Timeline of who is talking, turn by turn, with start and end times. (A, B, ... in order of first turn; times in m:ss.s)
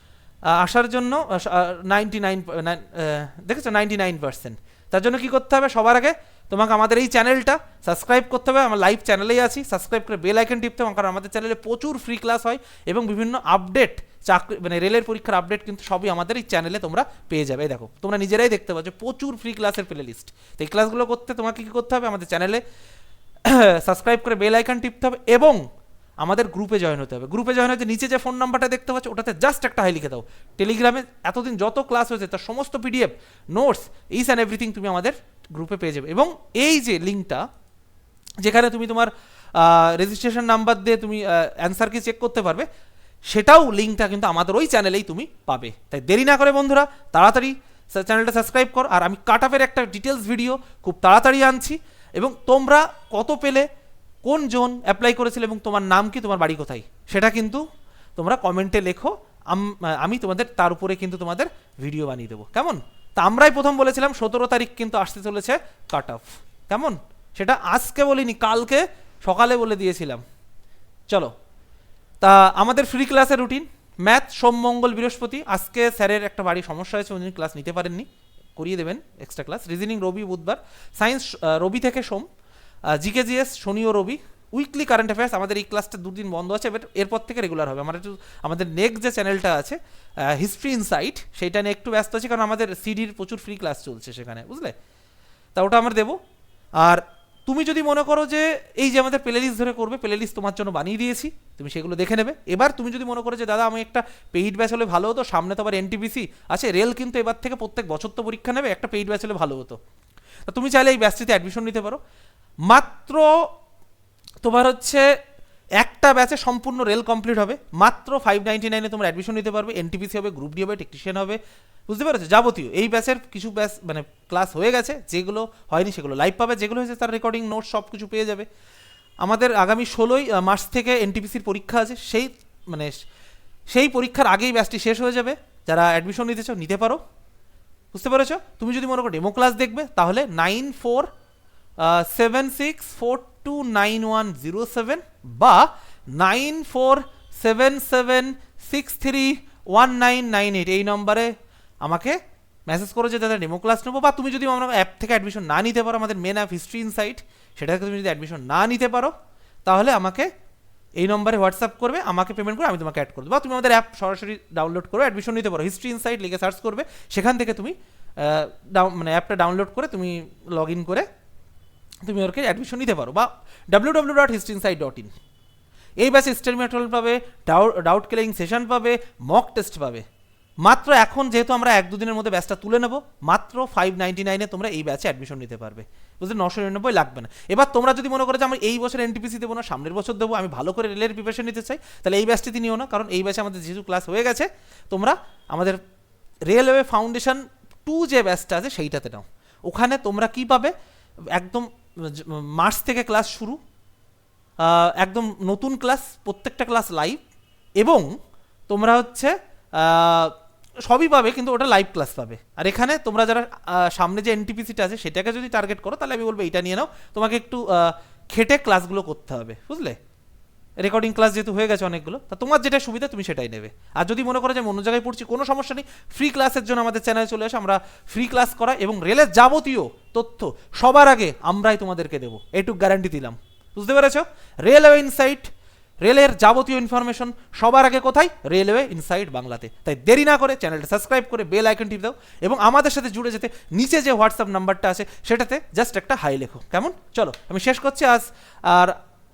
0:00.5-0:22.6 A
0:23.4-0:25.6 A
0:26.2-0:37.4 A
0:38.4-0:42.7 A
0:43.3-0:53.7 A
0:54.2-0:57.6 A
0:58.2-1:10.2 A
1:12.2-1:22.3 A
1:22.9-1:34.8 A
1:35.6-1:36.2 A
1:36.8-1:49.8 A
1:50.5-1:52.0 A
1:52.7-1:53.3 A
1:54.4-1:55.1 A
1:55.8-2:08.5 A
2:09.2-2:12.9 A
2:13.7-2:17.0 A
2:17.9-2:21.1 A
2:21.8-2:39.1 A
2:39.7-2:40.3 A
2:41.0-2:51.1 A
2:52.0-2:55.1 A
2:56.0-3:00.1 A
3:00.6-3:15.8 A
3:16.5-3:20.7 A
3:21.3-3:23.6 A
3:24.6-3:27.2 A
3:27.8-3:28.1 A
3:28.7-3:30.3 A
3:30.9-3:40.0 A
3:40.8-3:55.5 A
3:56.0-4:09.0 A